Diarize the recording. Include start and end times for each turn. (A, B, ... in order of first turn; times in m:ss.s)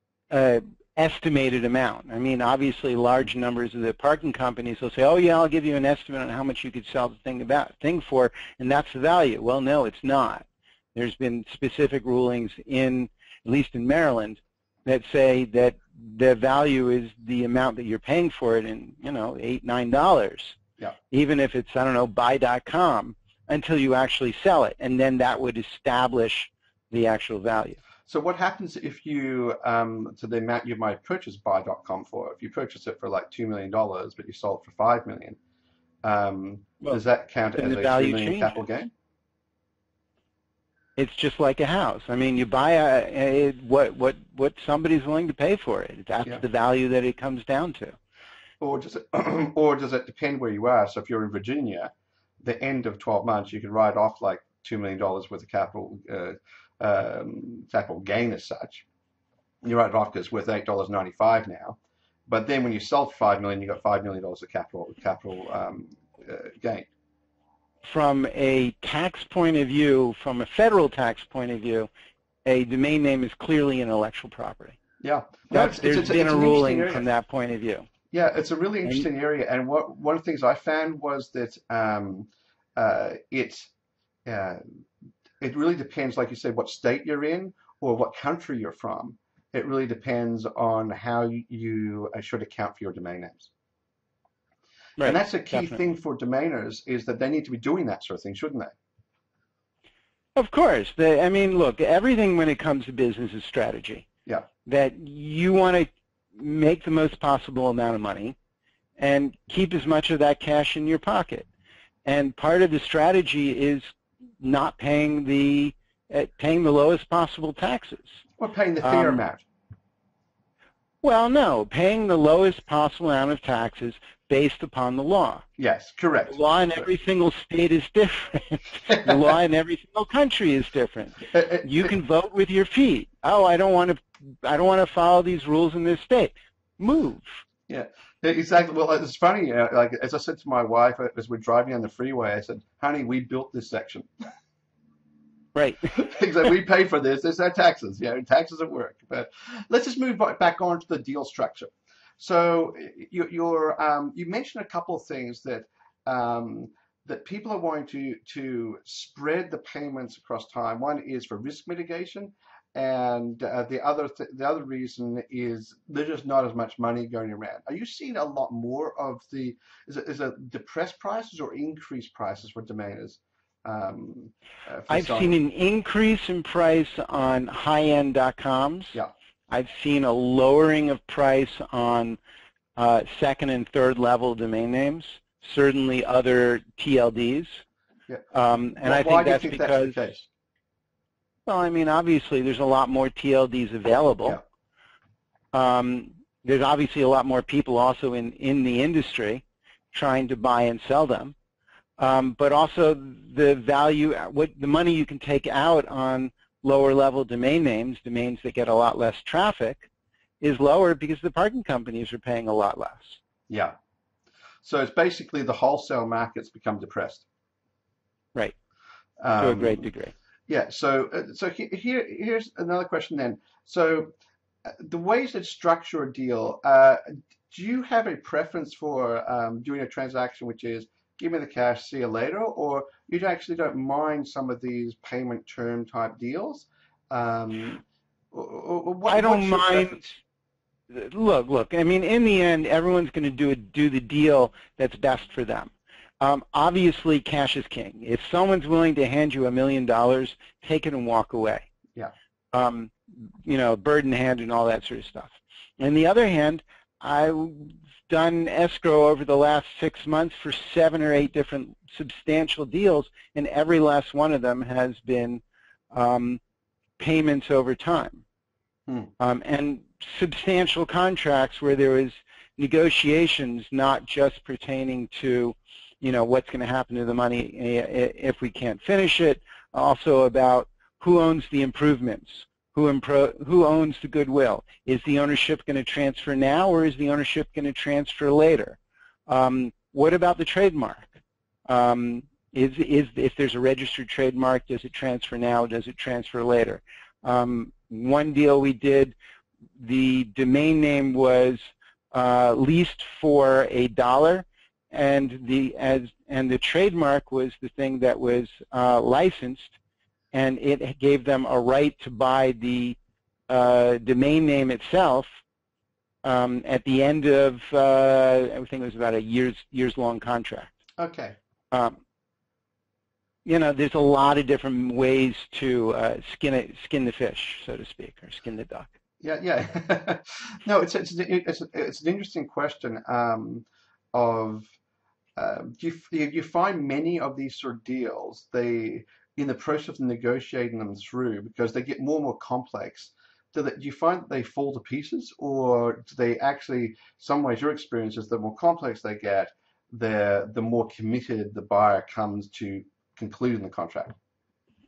0:00.3-0:20.6 A
0:21.1-0:27.8 A
0:28.1-0:35.4 B
0:36.0-0:38.9 B
0:37.6-0:38.6 A
0:41.0-0:48.0 A
0:48.6-0:58.8 B
0:59.6-1:06.9 B
1:07.8-1:11.9 A
1:12.4-1:14.8 A
1:15.0-1:17.0 B
1:15.5-1:17.9 A
1:18.1-1:23.7 B
1:24.2-1:24.6 B
1:25.4-1:33.5 B
1:35.0-1:35.8 A
1:35.0-1:38.7 B
1:40.4-1:44.0 A
1:44.6-1:48.4 A
1:49.0-1:51.5 A
1:52.0-1:58.2 A
1:58.4-1:59.4 B
1:58.8-1:59.2 A
2:01.0-2:05.4 A
2:05.6-2:06.9 B
2:06.3-2:17.4 A
2:08.9-2:09.3 B
2:11.3-2:12.0 B
2:17.7-2:24.1 B
2:25.5-2:26.0 A
2:25.9-2:55.3 B
2:54.9-2:59.0 A
2:59.5-3:02.2 A
3:02.8-3:07.6 A
3:08.3-3:10.0 A
3:08.8-3:10.2 B
3:11.4-3:14.4 A
3:15.5-3:21.3 A
3:22.0-3:29.9 A
3:30.4-3:33.2 A
3:33.5-3:33.7 B
3:34.6-3:37.2 B
3:39.2-3:39.9 B
3:39.4-3:40.1 A
3:40.5-3:44.1 B
3:44.6-4:00.0 B
3:59.1-4:00.2 A
4:00.9-4:11.7 A
4:12.5-4:26.4 A
4:27.0-4:28.2 A
4:29.2-4:59.1 A
4:59.8-5:09.8 A
5:10.3-5:13.0 A
5:13.5-5:15.4 A
5:16.2-5:20.8 A
5:21.0-5:21.4 B
5:21.7-5:22.0 A
5:23.4-5:28.9 A
5:29.2-5:34.7 B
5:35.4-5:54.1 B